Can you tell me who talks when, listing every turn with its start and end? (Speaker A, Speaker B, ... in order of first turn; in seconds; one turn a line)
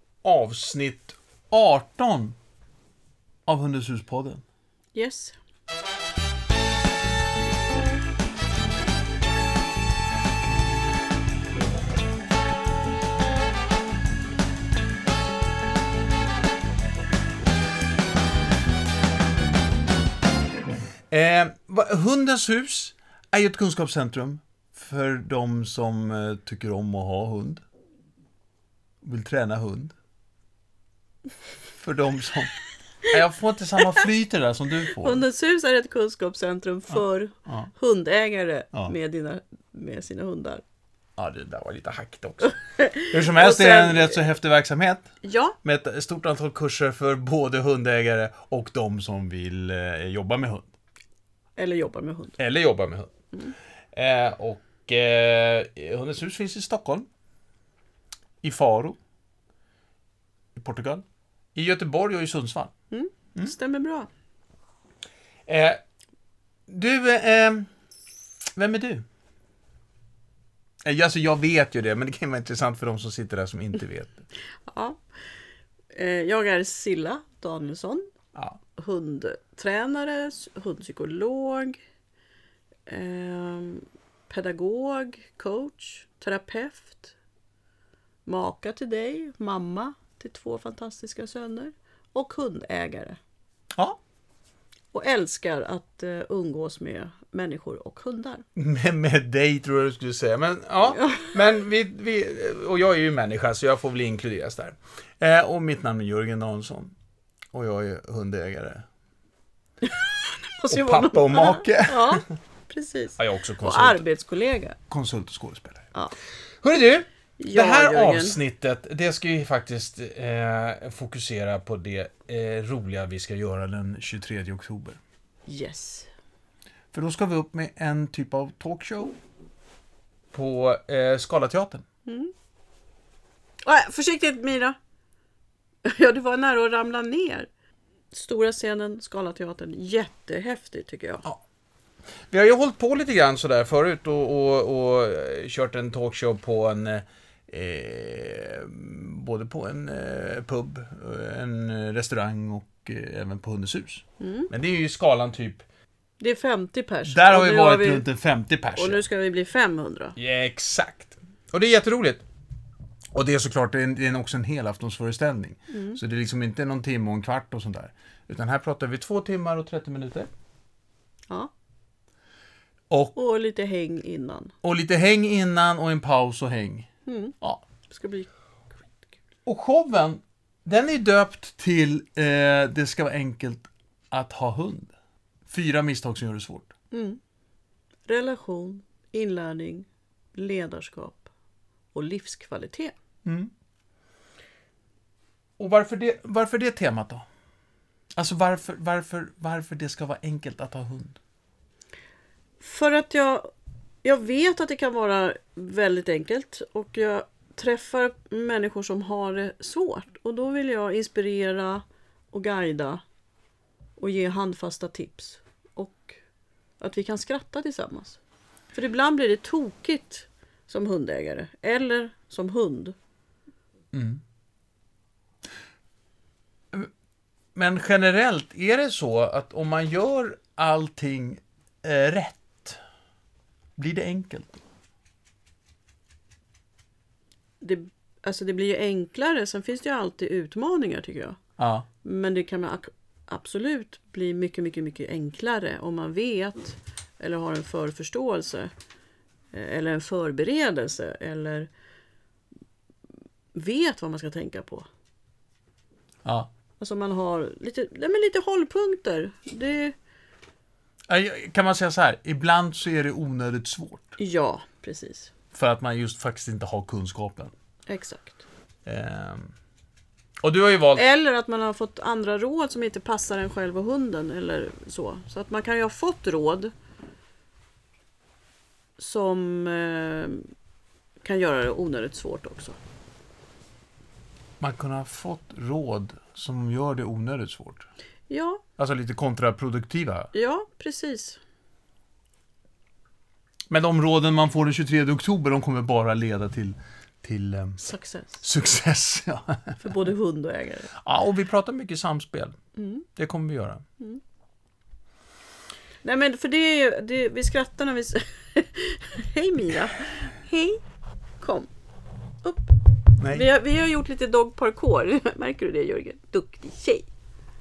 Speaker A: 0.2-2.4
Speaker A: 3.5-4.4
Speaker B: 4.9-5.4
Speaker A: 21.1-27.6
Speaker A: 29.0-29.9
Speaker A: 31.8-32.5
Speaker A: 33.1-35.2
Speaker B: 35.0-40.6
Speaker A: 41.2-45.1
Speaker B: 42.8-44.2
Speaker B: 45.2-45.6
Speaker A: 45.6-50.7
Speaker B: 51.6-52.4
Speaker A: 52.4-53.1
Speaker A: 53.9-57.1
Speaker A: 58.4-59.0
Speaker A: 60.5-61.0
Speaker A: 61.5-62.7
Speaker B: 62.9-64.1
Speaker A: 65.5-65.8
Speaker A: 66.7-67.7
Speaker A: 68.6-69.0
Speaker A: 70.8-74.3
Speaker B: 74.7-75.0
Speaker B: 75.9-78.0
Speaker B: 78.8-81.8
Speaker B: 82.9-87.2
Speaker B: 88.2-93.2
Speaker B: 94.9-98.4
Speaker A: 98.6-106.9
Speaker B: 100.9-101.3
Speaker A: 107.5-108.8
Speaker B: 109.8-114.8
Speaker A: 110.7-112.2
Speaker A: 113.2-114.0
Speaker A: 114.9-115.9
Speaker A: 116.6-125.0
Speaker B: 117.4-118.4
Speaker B: 125.5-126.1
Speaker A: 126.9-129.2
Speaker A: 130.3-131.8
Speaker B: 132.1-132.3
Speaker B: 133.7-134.8
Speaker B: 135.8-137.5
Speaker B: 138.1-141.2
Speaker A: 142.3-155.7
Speaker B: 154.2-154.5
Speaker B: 156.2-158.1
Speaker A: 157.1-159.0
Speaker B: 158.8-160.2
Speaker A: 160.2-162.2
Speaker A: 163.1-170.3
Speaker B: 165.7-166.0
Speaker A: 172.9-173.2
Speaker B: 173.2-174.5
Speaker A: 174.6-176.9
Speaker B: 177.1-178.3
Speaker A: 179.5-184.9
Speaker A: 185.5-186.7
Speaker B: 186.9-187.2
Speaker B: 188.1-191.3
Speaker B: 191.9-192.9
Speaker A: 193.2-193.5
Speaker A: 195.6-197.2
Speaker A: 198.2-201.2
Speaker B: 202.6-203.5
Speaker B: 204.0-213.0
Speaker B: 214.0-216.2
Speaker B: 216.8-218.2
Speaker B: 218.7-222.9
Speaker A: 223.9-224.2
Speaker A: 227.6-232.8
Speaker A: 233.8-234.6
Speaker B: 237.6-241.4
Speaker A: 241.6-241.9
Speaker B: 242.0-248.7
Speaker B: 249.5-251.7
Speaker B: 253.6-254.9
Speaker A: 256.2-256.5
Speaker B: 256.8-259.9
Speaker A: 261.1-264.2
Speaker B: 264.2-265.3
Speaker A: 265.5-267.5
Speaker B: 267.9-268.4
Speaker A: 268.9-269.5
Speaker A: 270.4-271.0
Speaker B: 270.9-276.7
Speaker B: 279.0-280.4
Speaker B: 281.2-282.8
Speaker A: 284.6-287.9
Speaker B: 288.3-288.6
Speaker A: 288.8-290.3
Speaker B: 290.3-291.4
Speaker A: 293.7-297.8
Speaker B: 297.8-298.4
Speaker A: 298.4-299.8
Speaker B: 299.8-300.9
Speaker A: 301.0-302.6
Speaker B: 302.8-303.1
Speaker A: 303.2-303.8
Speaker B: 306.0-310.8
Speaker B: 311.4-311.7
Speaker B: 312.4-317.1
Speaker A: 313.2-313.5